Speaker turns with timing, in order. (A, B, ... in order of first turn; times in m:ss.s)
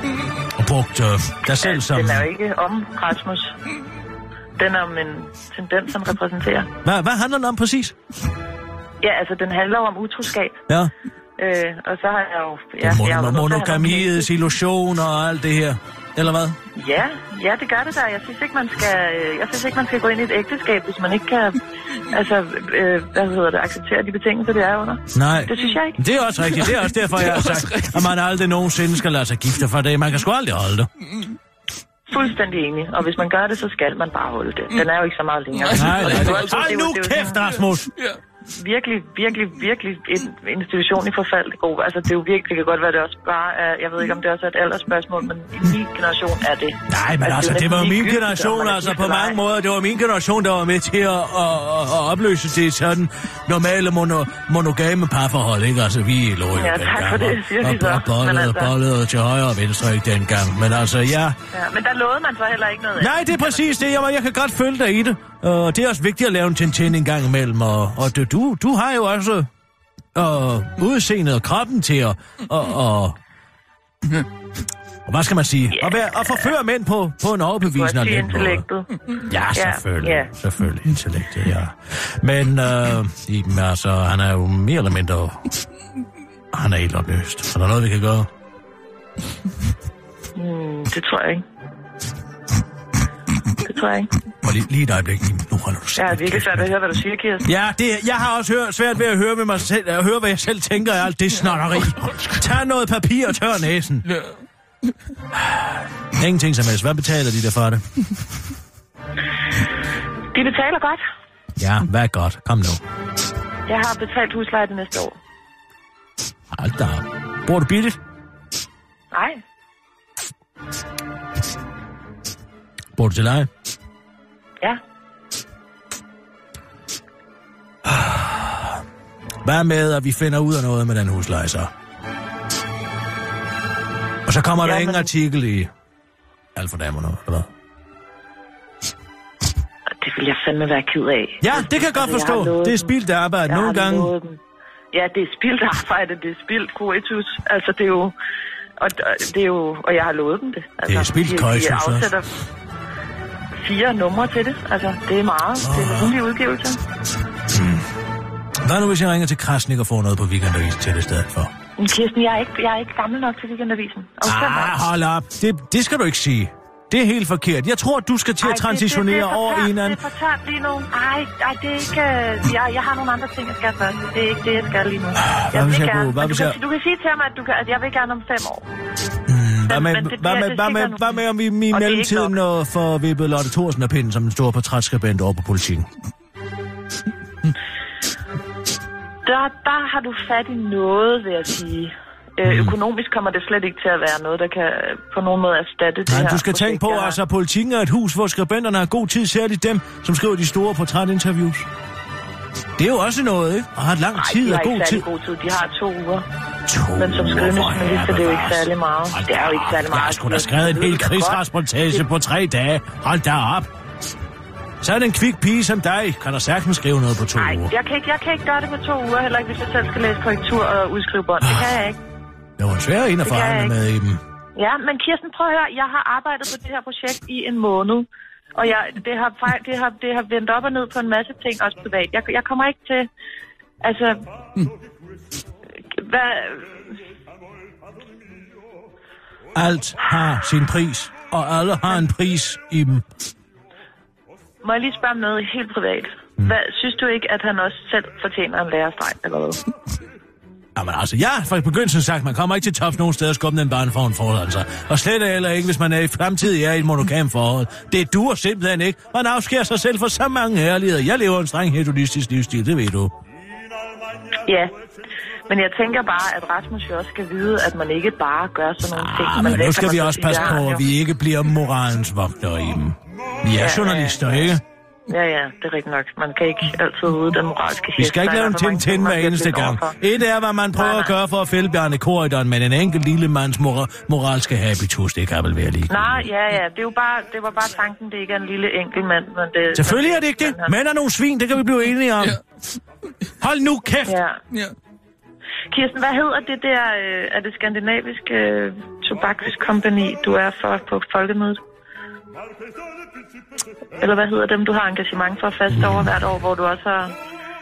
0:00.5-0:02.3 A
0:01.5-0:03.6 B
0:04.6-0:06.7 B
0:06.8-0:08.0 A
0:09.0-0:10.6 B
0:11.4-0:14.3 B
0:12.8-0:16.6 A
0:16.8-0:26.0 B
0:25.1-0:30.9 A
0:26.6-0:28.1 C
0:31.1-0:31.4 C
0:32.1-0:37.5 B
0:35.5-0:36.7 C
0:35.7-0:37.9 A
0:37.9-0:38.2 C
0:38.5-0:49.4 B
0:46.9-1:01.4 A
0:56.5-0:58.8 B
1:01.5-1:03.8 B
1:03.0-1:09.5 A
1:10.2-1:13.2 A
1:15.1-1:18.6 A
1:15.7-1:16.5 B
1:17.6-1:18.9 B
1:19.3-1:25.5 A
1:19.5-1:20.3 B
1:26.5-1:28.3 A
1:30.4-1:31.4 B
1:33.6-1:34.1 B
1:34.4-1:36.7 A
1:36.0-1:37.5 B
1:37.4-1:44.1 A
1:41.5-1:42.5 C
1:44.1-1:44.9 C
1:45.4-1:47.8 A
1:50.3-1:51.0 B
1:51.6-1:52.8 A
1:53.7-1:55.2 B
1:56.5-1:58.0 A
1:59.1-1:59.4 B
2:03.0-2:03.5 A
2:07.8-2:08.8 A
2:09.4-2:11.7 A
2:14.3-2:15.7 A
2:14.6-2:15.1 B
2:16.6-2:17.5 A
2:20.0-2:22.9 B
2:21.4-2:24.1 A
2:23.5-2:24.4 B
2:24.9-2:28.1 B
2:28.8-2:32.3 B
2:30.9-2:32.1 A
2:33.6-2:36.8 B
2:35.6-2:36.2 A
2:37.5-2:37.9 A
2:38.6-2:41.5 A
2:41.8-2:44.9 B
2:44.2-2:50.0 A
2:48.4-2:58.7 B
2:55.2-2:56.6 A
2:59.3-3:05.9 A
2:59.7-3:02.4 B
3:09.2-3:17.2 B
3:12.4-3:12.7 A
3:16.1-3:21.7 A
3:22.8-3:25.0 A
3:24.2-3:26.2 B
3:26.7-3:33.7 A
3:27.0-3:32.0 B
3:34.8-3:37.7 A
3:37.4-3:42.0 B
3:41.4-3:41.7 A
3:42.6-3:44.2 A
3:43.2-3:43.8 B
3:44.6-3:53.1 B
3:53.8-3:54.2 B
3:55.9-3:56.9 B
3:59.6-4:03.0 A
4:04.6-4:09.6 B
4:10.8-4:23.1 A
4:24.4-4:24.7 B
4:25.5-4:30.9 B
4:28.9-4:34.6 A
4:33.6-4:40.0 B
4:38.0-4:46.3 A
4:40.8-4:41.2 B
4:45.9-4:50.8 B
4:49.7-4:52.4 A
4:53.4-4:54.2 A
4:54.1-4:54.4 B
4:55.7-5:01.6 B
5:04.0-5:07.2 B